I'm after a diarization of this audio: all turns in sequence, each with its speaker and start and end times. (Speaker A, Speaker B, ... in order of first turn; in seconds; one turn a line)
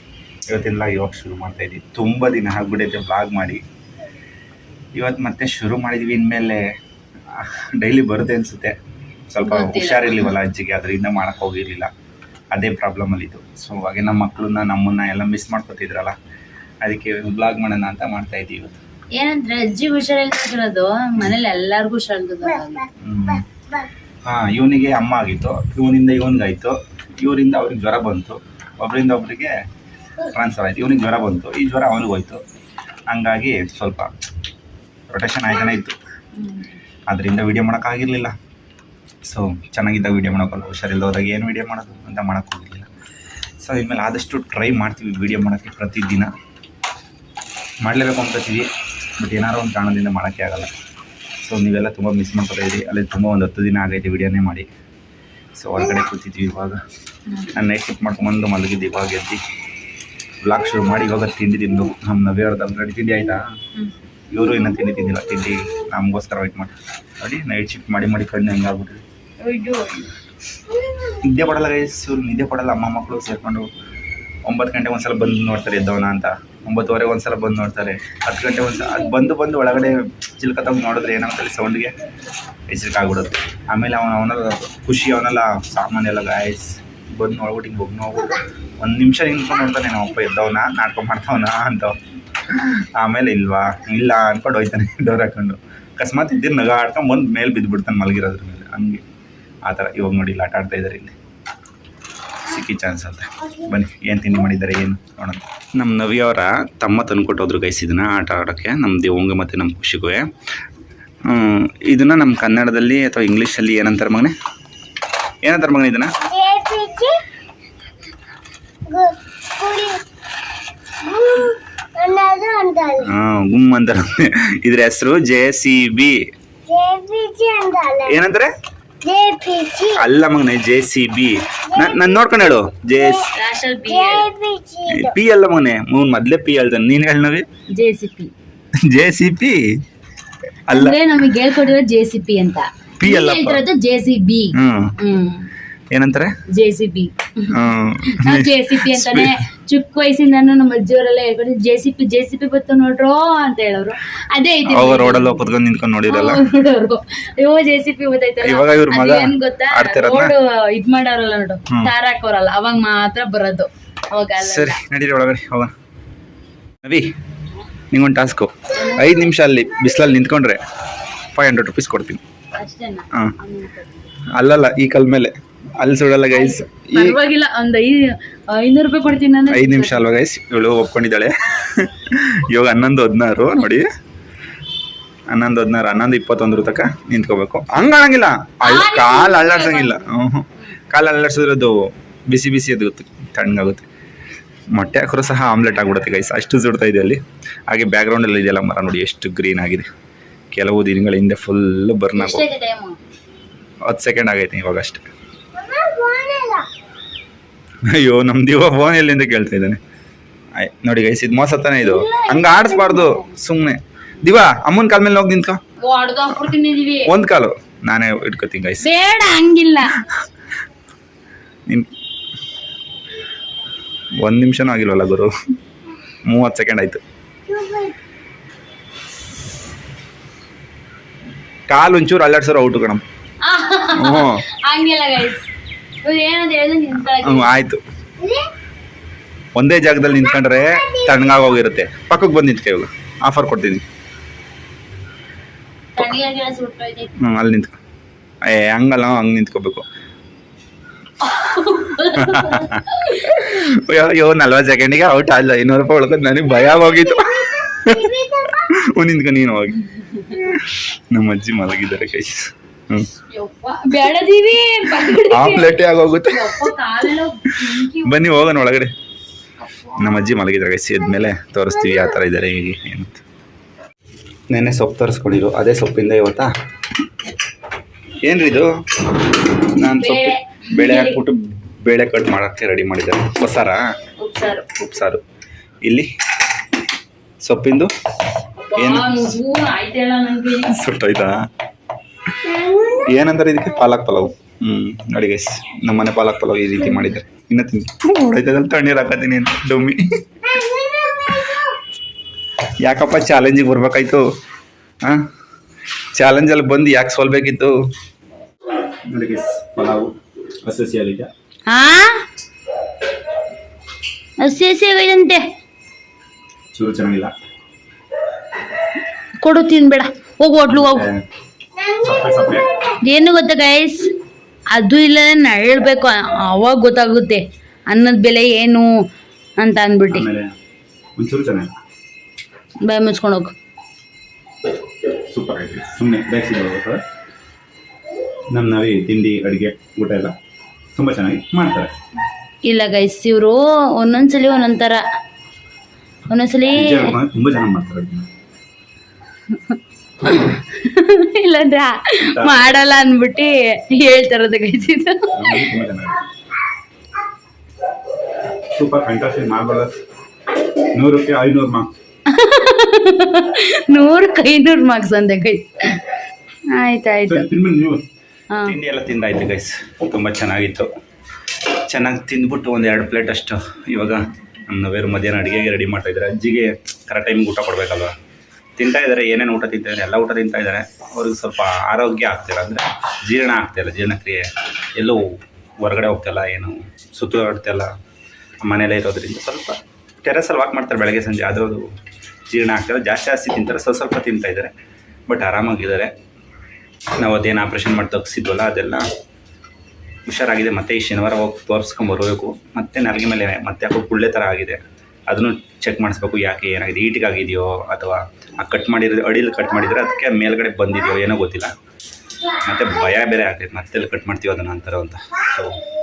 Speaker A: 0.5-3.6
Speaker A: 5.0-6.7
Speaker A: 7.3-8.8
Speaker A: 9.3-11.9
Speaker B: 9.4-10.3
Speaker A: 12.5-16.2
Speaker A: 16.8-18.8
Speaker B: 19.1-22.9
Speaker A: 23.0-23.4
Speaker A: 24.2-29.6
Speaker A: 30.3-32.4
Speaker A: 33.1-34.1
Speaker A: 35.1-36.0
Speaker A: 37.1-38.4
Speaker A: 39.2-42.9
Speaker A: 43.6-46.3
Speaker A: 47.8-50.7
Speaker A: 51.4-54.7
Speaker A: 55.5-56.8
Speaker B: 57.3-57.5
Speaker A: 57.5-59.4
Speaker A: 60.4-63.4
Speaker A: 64.3-69.0
Speaker B: 69.4-70.1
Speaker A: 71.2-73.7
Speaker A: 74.5-82.0
Speaker A: 82.7-92.0
Speaker A: 92.5-99.0
Speaker A: 99.7-101.2
Speaker A: 102.5-110.3
Speaker A: 111.3-114.3
Speaker A: 115.4-116.1
Speaker C: 116.2-117.2
Speaker C: 118.9-120.0
Speaker C: 121.0-123.1
Speaker A: 123.0-126.2
Speaker C: 126.7-128.2
Speaker A: 128.1-128.5
Speaker C: 129.0-130.0
Speaker A: 130.0-133.3
Speaker C: 131.7-133.2
Speaker B: 133.2-134.3
Speaker C: 133.9-135.1
Speaker A: 134.9-137.5
Speaker B: 137.7-138.3
Speaker A: 138.8-139.8
Speaker A: 140.7-141.0
Speaker B: 140.7-145.5
Speaker A: 143.0-143.6
Speaker A: 144.5-145.0
Speaker A: 145.9-146.3
Speaker B: 146.5-155.5
Speaker A: 147.5-149.4
Speaker A: 154.7-156.4
Speaker B: 156.1-164.8
Speaker A: 158.4-160.3
Speaker A: 164.4-165.7
Speaker A: 166.8-167.1
Speaker A: 167.9-170.6
Speaker B: 168.7-169.2
Speaker A: 171.3-172.2
Speaker B: 172.5-174.1
Speaker A: 174.3-177.2
Speaker B: 176.3-180.1
Speaker A: 179.5-183.9
Speaker A: 185.3-193.9
Speaker B: 188.6-190.1
Speaker A: 194.7-199.9
Speaker A: 200.5-202.4
Speaker B: 202.2-203.0
Speaker A: 203.8-205.1
Speaker C: 205.6-206.7
Speaker A: 207.9-209.8
Speaker A: 210.6-215.6
Speaker B: 211.8-213.3
Speaker B: 215.8-217.1
Speaker A: 217.1-218.9
Speaker B: 218.8-220.0
Speaker A: 224.2-225.3
Speaker A: 226.3-227.0
Speaker C: 227.5-227.9
Speaker A: 231.7-233.0
Speaker B: 233.4-235.5
Speaker A: 233.9-234.4
Speaker B: 236.1-237.5
Speaker A: 237.1-237.8
Speaker C: 238.2-238.5
Speaker A: 239.6-243.8
Speaker C: 240.1-241.2
Speaker B: 245.9-247.1
Speaker A: 247.2-247.8
Speaker A: 248.4-249.9
Speaker B: 251.2-253.5
Speaker A: 252.2-259.8
Speaker C: 256.7-258.7
Speaker A: 260.3-263.1
Speaker B: 263.3-268.3
Speaker A: 265.1-266.7
Speaker A: 268.0-268.9
Speaker B: 269.7-269.9
Speaker A: 270.0-273.2
Speaker A: 274.5-276.5
Speaker A: 278.2-278.8
Speaker A: 279.7-283.9
Speaker B: 279.9-281.2
Speaker B: 284.2-284.7
Speaker A: 284.7-285.2
Speaker A: 285.8-286.1
Speaker A: 287.4-287.9
Speaker B: 288.7-290.8
Speaker A: 288.7-289.3
Speaker A: 290.7-291.5
Speaker C: 292.4-293.1
Speaker A: 293.1-300.1
Speaker C: 300.4-301.6
Speaker A: 302.8-304.3
Speaker A: 305.0-305.3
Speaker A: 306.1-307.8
Speaker A: 309.1-310.1
Speaker A: 310.6-311.3
Speaker B: 311.7-312.2
Speaker B: 314.4-315.4
Speaker A: 316.7-317.3
Speaker B: 319.4-321.1
Speaker A: 320.7-321.2
Speaker C: 321.8-323.0
Speaker A: 322.0-322.7
Speaker B: 323.0-324.1
Speaker B: 324.7-328.9
Speaker B: 329.6-330.3
Speaker A: 330.1-330.5
Speaker A: 331.2-331.7
Speaker B: 332.8-333.6
Speaker A: 335.2-337.0
Speaker A: 338.5-340.4
Speaker A: 341.0-341.9
Speaker B: 342.6-345.0
Speaker B: 346.3-347.1
Speaker A: 346.7-348.3
Speaker B: 349.5-355.7
Speaker A: 352.2-352.7
Speaker A: 355.3-356.2
Speaker A: 358.7-360.0
Speaker A: 360.9-361.9
Speaker B: 362.3-366.1
Speaker B: 366.7-367.5
Speaker A: 367.3-368.1
Speaker B: 368.5-368.8
Speaker A: 368.6-370.9
Speaker A: 371.9-378.1
Speaker A: 378.8-387.9
Speaker A: 388.6-392.0
Speaker A: 392.5-394.7
Speaker A: 395.3-396.1
Speaker A: 397.2-399.1
Speaker A: 400.3-411.7
Speaker A: 412.6-415.8